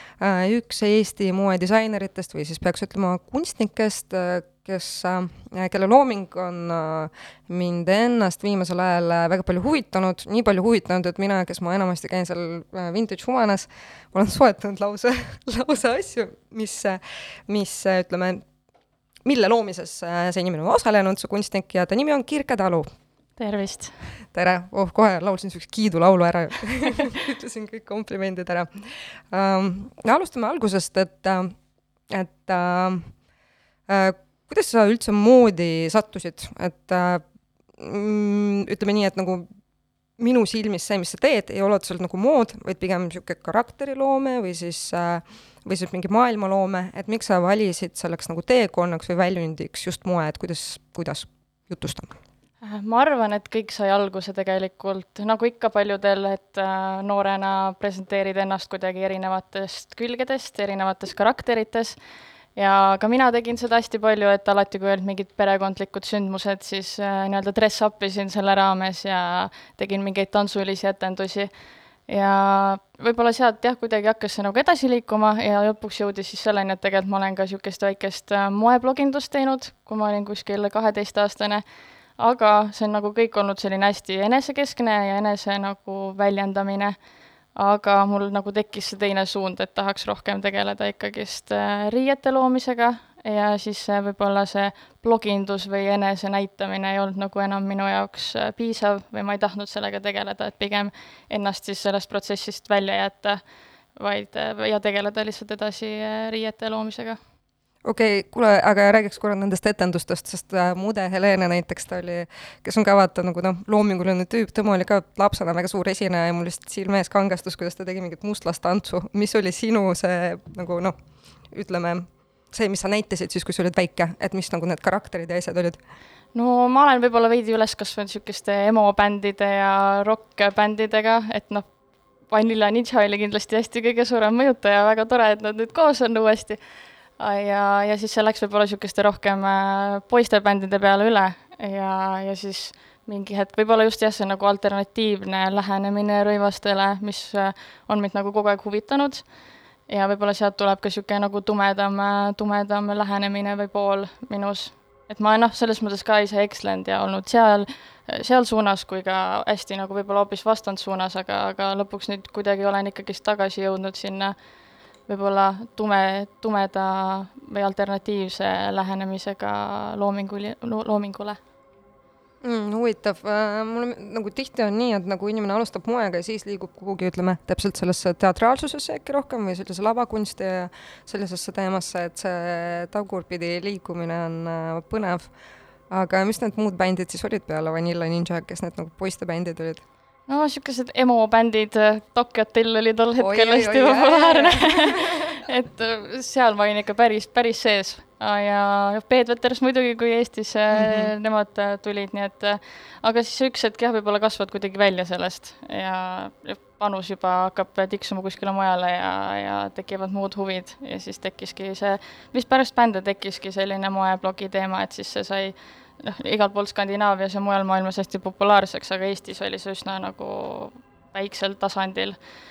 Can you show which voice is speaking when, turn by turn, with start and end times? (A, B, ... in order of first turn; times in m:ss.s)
0:00.2-0:18.4 A
0:19.2-0:22.9 A
0:23.4-0:24.0 B
0:24.3-0:31.5 A
0:32.1-0:33.1 A
0:33.9-0:37.2 A
0:37.8-0:39.5 A
0:40.2-0:52.2 A
0:52.6-1:02.0 B
1:02.6-1:11.5 B
1:12.1-1:21.6 B
1:22.2-1:27.0 B
1:27.6-1:43.4 B
1:44.0-1:47.2 B
1:47.8-2:01.0 A
2:01.5-2:05.8 A
2:06.3-2:11.7 B
2:12.3-2:16.6 B
2:17.2-2:29.2 B
2:29.9-2:44.3 B
2:45.1-2:51.4 B
2:52.4-3:05.3 A
3:05.9-3:09.8 A
3:10.3-3:42.2 B
3:13.2-3:15.4 A
3:20.7-3:21.1 A